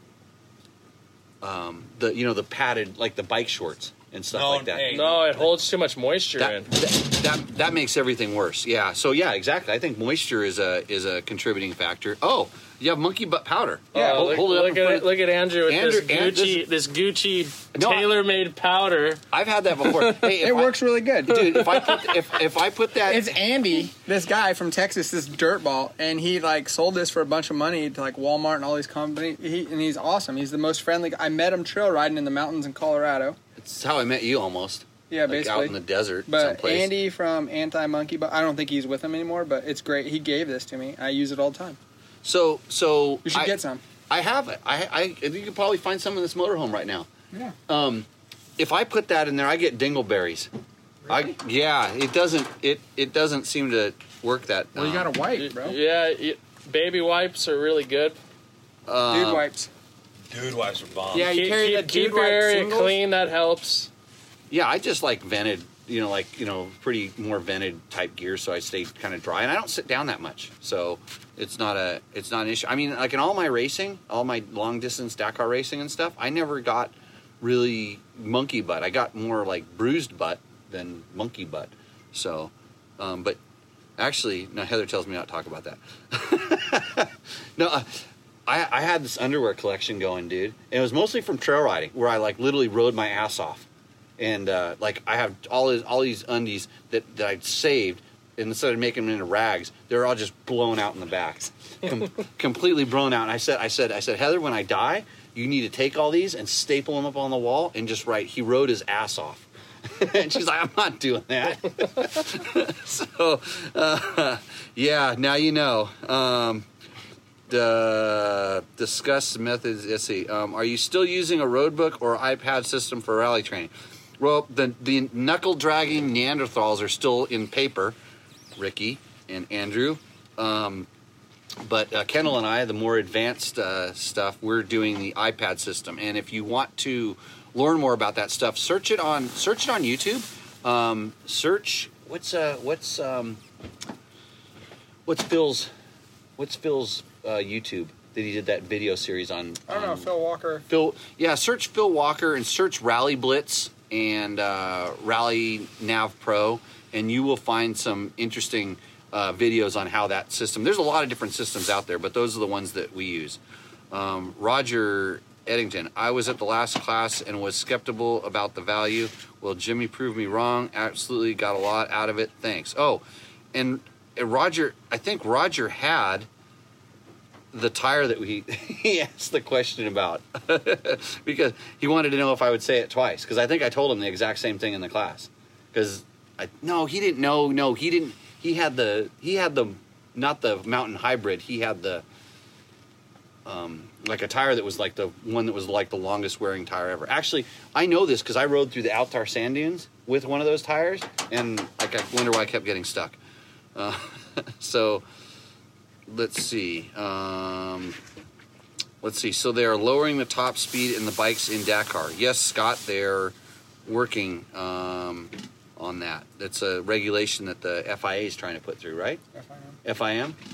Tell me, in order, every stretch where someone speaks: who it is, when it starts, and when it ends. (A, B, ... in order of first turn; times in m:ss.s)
0:01.4-0:04.9 A
0:04.3-0:05.6 B
0:04.9-0:06.7 C
0:06.4-0:15.1 A
0:13.9-0:14.4 D
0:13.9-0:19.2 C
0:15.6-0:16.6 A
0:17.7-0:18.1 A
0:19.3-0:23.3 A
0:19.8-0:20.3 C
0:20.4-0:21.9 D
0:23.0-0:33.4 D
0:33.6-0:36.9 A
0:35.1-0:41.8 D
0:42.2-0:43.6 A
0:43.2-0:43.8 D
0:44.1-0:47.1 A
0:47.7-0:48.0 A
0:48.6-0:50.5 A
0:51.1-0:55.1 A
0:54.7-0:55.8 D
0:55.3-0:58.2 C
0:58.9-0:59.5 A
0:59.1-0:59.7 D
1:00.3-1:01.3 B
1:01.1-1:02.9 D
1:01.2-1:03.9 C
1:04.5-1:23.4 A
1:24.0-1:33.6 A
1:34.2-1:56.6 A
1:57.5-2:08.0 A
2:08.6-2:10.9 A
2:11.6-2:23.4 A
2:25.0-2:25.7 A
2:26.4-2:30.1 A
2:29.7-2:30.6 D
2:30.7-2:43.4 A
2:43.9-2:56.3 A
2:57.5-3:12.0 A
3:13.4-3:23.2 A
3:23.7-3:25.0 A
3:26.1-3:28.0 A
3:29.0-3:33.3 A
3:33.9-3:39.2 A
3:39.3-3:39.8 D
3:39.8-3:40.4 A